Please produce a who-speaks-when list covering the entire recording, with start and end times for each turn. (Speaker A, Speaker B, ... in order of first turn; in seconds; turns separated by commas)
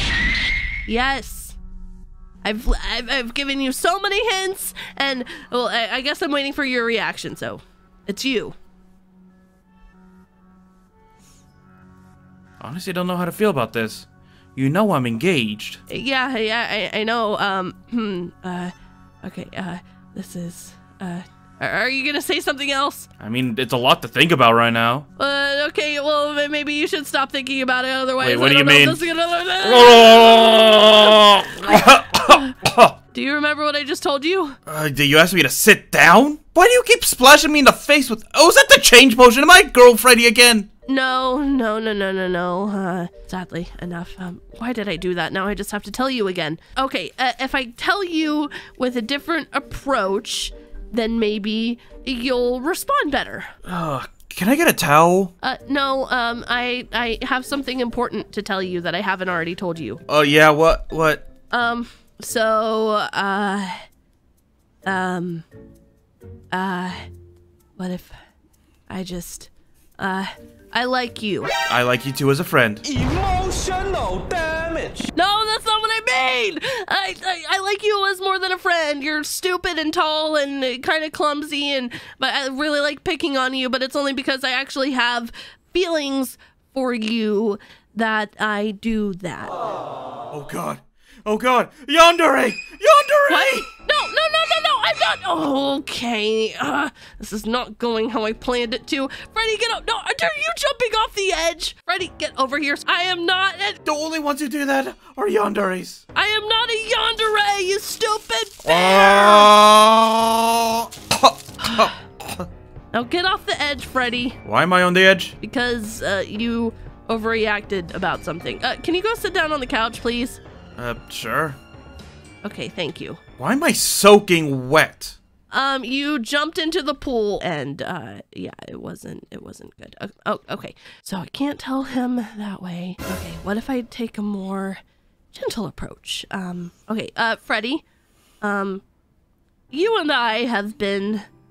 Speaker A: 0.8-1.6, Speaker A: 2.4-8.6, Speaker B: 12.6-15.8, Speaker A: 15.9-23.1, Speaker B: 23.2-25.1, Speaker A: 25.2-32.5, Speaker B: 28.2-29.1, Speaker B: 29.6-32.9, Speaker A: 33.1-34.6, Speaker B: 34.7-40.7, Speaker A: 40.9-53.5, Speaker B: 53.6-55.3, Speaker A: 55.4-60.0, Speaker B: 60.1-61.2, Speaker A: 61.5-63.8, Speaker A: 64.8-65.5, Speaker A: 66.5-67.0, Speaker A: 67.8-68.2, Speaker A: 68.9-71.5, Speaker B: 71.7-72.8, Speaker C: 72.8-75.1, Speaker A: 75.1-89.5, Speaker B: 90.3-93.7, Speaker A: 93.3-103.8, Speaker B: 103.8-106.0, Speaker A: 106.1-109.5, Speaker B: 108.6-112.5, Speaker A: 112.9-114.4, Speaker B: 114.4-115.3, Speaker A: 115.4-120.4, Speaker B: 120.8-121.6, Speaker A: 122.4-123.2, Speaker B: 123.4-125.2, Speaker A: 125.5-134.8, Speaker A: 135.3-137.8, Speaker A: 138.4-138.8, Speaker A: 139.7-141.2